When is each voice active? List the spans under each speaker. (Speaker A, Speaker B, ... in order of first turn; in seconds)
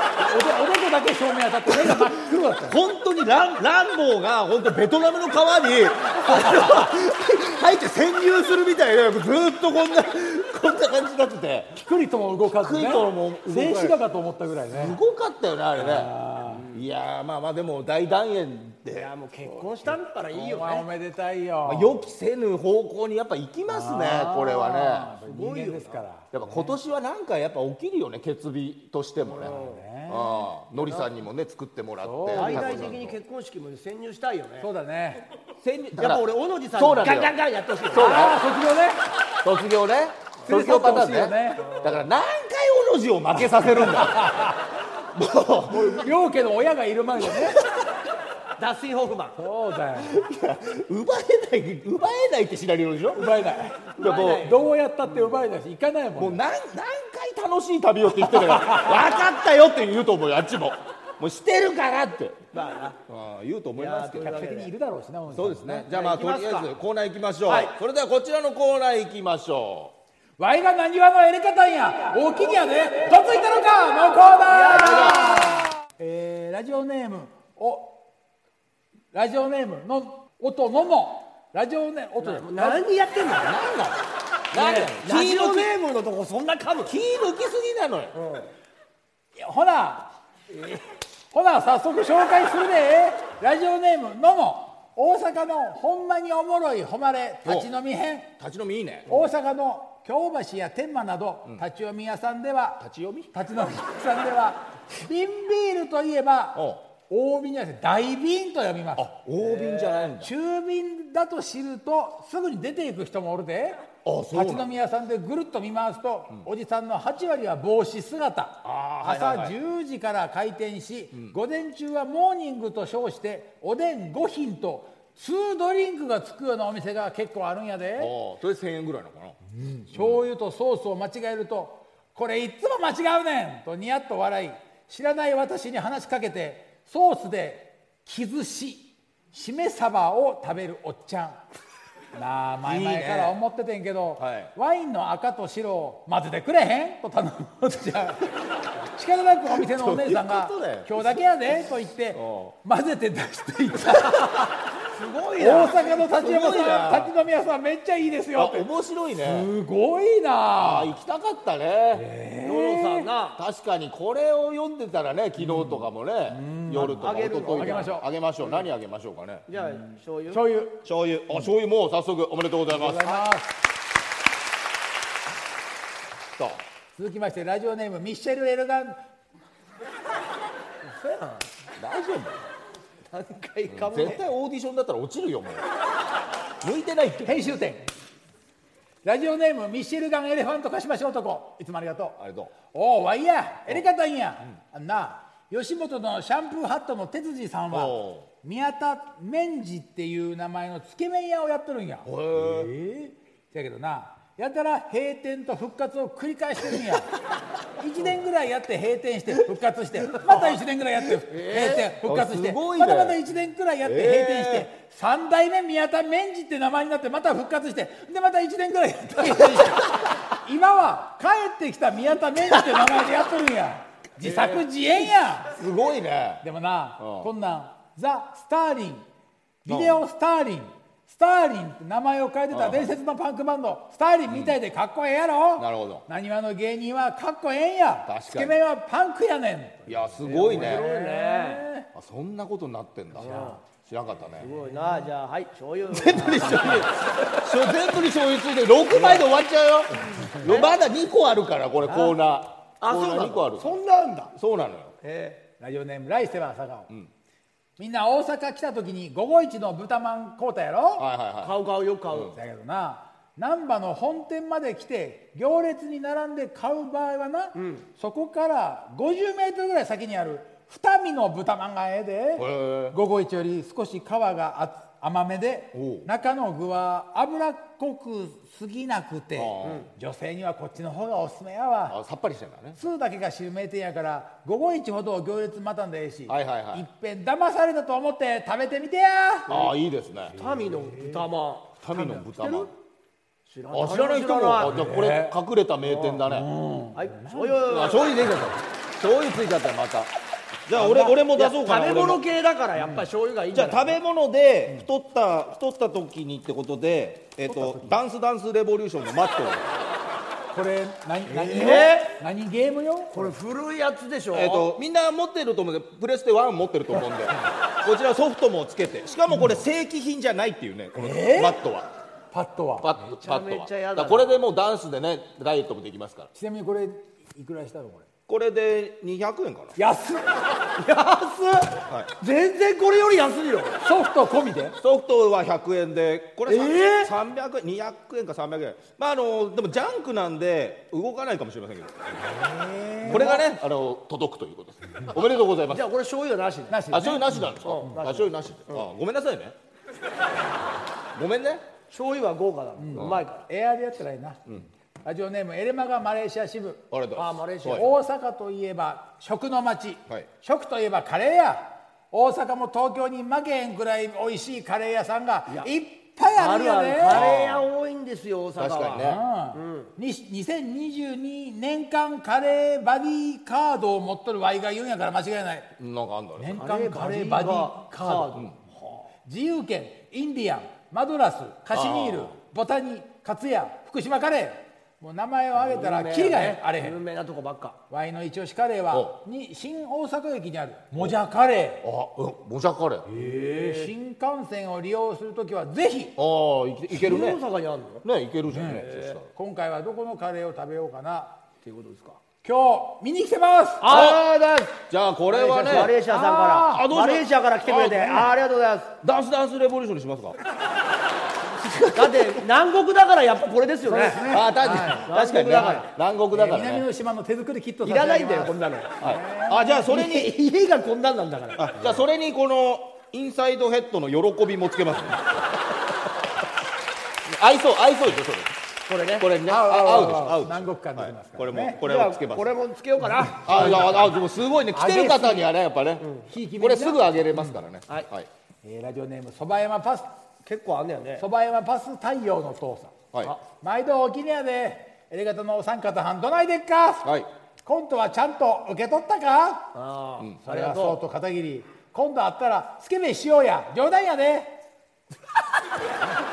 Speaker A: 0.2-2.8, 11.8-15.0, 15.8-16.6, 20.3-22.1, 23.7-26.8, 29.4-30.5, 32.0-32.9, 34.6-35.2, 37.9-39.0, 40.5-41.8, 43.4-44.6, 45.7-47.6, 49.4-50.2, 53.1-56.4, 58.2-59.0, 64.2-65.9, 70.4-78.0, 79.1-82.8, 89.3-90.1, 91.3-98.3, 99.1-109.0, 110.0-128.1, 129.5-141.4, 142.1-154.6, 155.4-158.7, 159.2-160.9, 161.9-163.1, 165.4-168.1, 169.6-170.8, 172.7-173.5, 177.0-179.0, 187.2-187.8, 189.0-192.2, 192.7-207.1, 207.8-225.5, 226.4-229.1, 229.6-241.9, 243.2-243.6, 244.5-245.0, 251.9-252.1, 255.6-256.9, 257.8-261.1, 262.3-282.0, 282.8-289.6, 290.3-291.2, 291.9-292.7, 294.6-295.4, 296.2-297.6, 300.8-301.1, 307.5-308.0, 310.5-313.3, 320.9-321.6, 322.3-322.9, 326.3-328.1, 329.8-330.3, 333.8-334.8, 342.2-343.4, 346.7-347.6, 352.8-354.4, 355.0-356.8, 357.7-367.3, 369.0-375.7, 376.4-378.4, 379.2-387.0, 387.9-391.8, 393.1-396.1, 398.5-401.4, 402.4-404.0, 405.4-406.9, 413.9-415.1, 416.3-419.9, 429.4-431.8, 433.0-434.1, 434.7-435.5, 436.3-437.6, 438.6-440.1, 441.2-443.0, 443.5-447.1, 447.6-449.7, 450.4-454.6
Speaker B: 1.8-2.1, 2.6-11.8, 12.6-14.0, 14.7-16.1, 16.7-19.1, 21.6-25.1, 26.3-29.5, 30.1-33.2, 35.6-37.3, 37.9-38.4, 39.4-44.4, 45.1-46.1, 50.0-53.3, 54.0-54.5, 56.2-62.4, 63.1-64.4, 65.3-69.9, 74.8-75.4, 83.4-84.0, 84.5-85.7, 86.9-88.2, 98.4-99.1, 102.8-103.3, 106.5-106.8, 109.0-110.3, 114.0-114.7, 118.6-119.6, 128.0-129.4, 129.9-130.2, 142.6-143.3, 144.2-144.5, 149.5-151.2, 152.1-152.5, 156.0-157.1, 158.3-159.5, 160.6-162.1, 163.4-169.4, 170.8-173.2, 176.4-176.6, 181.8-182.4, 183.7-185.7, 186.6-187.5, 192.2-192.5, 197.7-198.3, 202.1-202.7, 210.2-210.5, 211.3-213.2, 213.8-214.7, 224.2-224.6, 225.5-226.4, 227.0-227.3, 229.7-230.0, 232.5-232.9, 234.3-234.6, 235.6-236.0, 238.1-238.6, 239.8-240.8, 241.9-244.5, 245.9-253.8, 254.3-254.9, 261.0-261.6, 272.4-273.0, 275.7-276.1, 279.4-279.9, 281.9-282.8, 286.3-286.9, 289.5-290.3, 291.8-292.7, 293.7-296.5, 297.6-300.1, 300.7-302.2, 303.5-309.8, 314.3-321.9, 322.8-326.3, 328.3-329.8, 334.8-342.0, 343.0-345.9, 346.9-349.5, 351.1-351.6, 352.9-353.2, 356.9-357.9, 367.1-367.7, 368.6-369.2, 375.8-376.6, 381.7-382.3, 391.8-393.1, 396.2-397.4, 398.0-399.2, 403.9-404.2, 404.9-405.9, 406.7-408.3, 409.0-410.4, 411.6-412.4, 414.2-416.9, 419.0-420.3, 421.6-425.2, 427.3-428.5, 429.2-432.5, 433.4-438.3
Speaker C: 16.5-16.8, 18.9-20.9, 25.2-26.0, 29.2-29.8, 30.8-31.1, 32.3-34.7, 36.0-38.4, 41.7-42.0, 48.6-49.4, 53.9-54.7, 62.5-63.0, 63.8-64.7, 65.8-66.7, 67.5-67.7, 74.5-75.7, 82.2-83.6, 84.5-87.0, 88.1-88.5, 109.7-109.9, 154.9-156.0, 162.4-163.4, 167.0-167.9, 169.5-170.4, 180.8-181.5, 183.1-184.2, 211.4-211.8, 240.2-241.6, 243.2-243.6, 244.4-247.3, 250.4-250.7, 252.8-254.3, 255.0-255.4, 261.4-262.4, 267.5-267.8, 290.4-291.8, 293.5-294.7, 295.9-296.2, 296.9-298.1, 300.9-304.0, 311.3-312.1, 313.1-314.8, 323.0-324.4, 330.8-333.8, 336.5-337.1, 345.7-346.8, 347.6-348.9, 351.9-353.4, 357.1-357.9, 366.3-369.9, 376.6-379.1, 385.6-387.8, 393.1-393.9, 396.9-398.0, 398.7-399.1, 401.6-402.2, 403.8-404.8, 405.3-409.0, 411.9-414.3, 415.1-415.9, 417.8-419.0, 419.8-421.8, 428.9-429.3, 431.8-434.1, 436.0-436.2, 440.4-441.2, 449.7-451.0